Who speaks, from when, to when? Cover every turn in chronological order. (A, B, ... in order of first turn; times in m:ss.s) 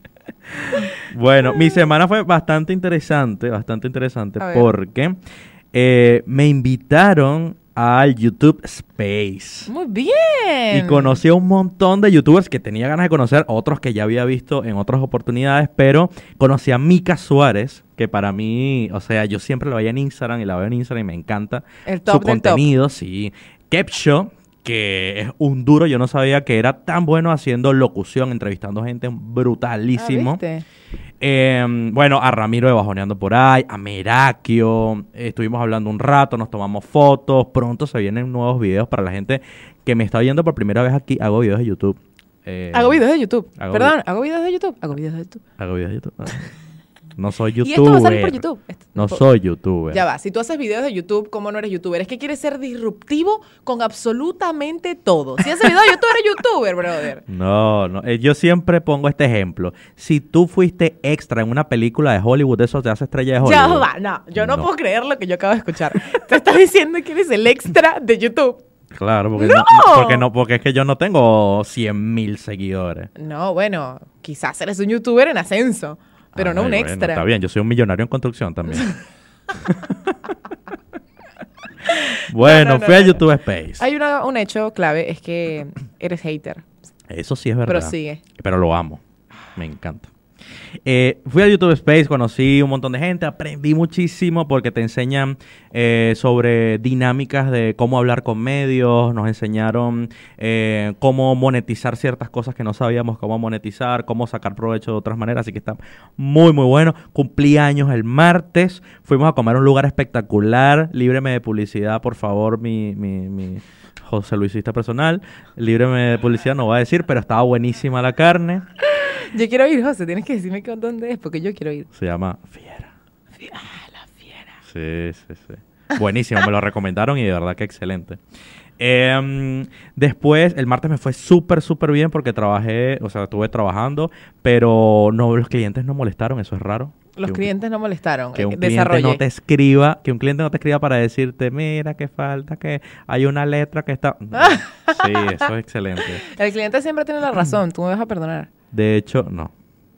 0:00.5-0:05.2 A
0:04.4-0:04.7 B
0:05.7-0:09.7 A
0:09.7-0:11.2 B
0:10.7-0:30.4 A
0:21.9-0:22.7 B
0:30.0-0:30.6 B
0:31.2-0:43.0 A
0:42.7-0:45.4 B
0:43.6-0:44.0 A
0:45.6-0:46.5 A
0:47.2-0:48.4 A
0:47.6-0:49.2 B
0:49.0-0:50.0 A
0:49.9-0:57.2 B
0:57.3-1:04.7 A
1:03.4-1:08.6 B
1:08.9-1:13.1 A
1:09.4-1:10.3 B
1:13.2-1:17.2 B
1:16.4-1:18.9 A
1:19.6-1:20.4 A
1:21.8-1:23.2 B
1:22.3-1:23.8 A
1:23.8-1:26.7 B
1:27.1-1:29.0 A
1:27.7-1:28.2 B
1:29.6-1:30.1 A
1:30.8-1:58.6 A
1:58.8-2:01.9 B
2:01.9-2:02.9 A
2:03.4-2:04.6 B
2:04.6-2:08.2 A
2:08.8-2:17.5 A
2:17.2-2:19.2 B
2:18.4-2:26.2 A
2:24.4-2:25.5 B
2:26.0-2:28.5 B
2:28.7-2:29.5 A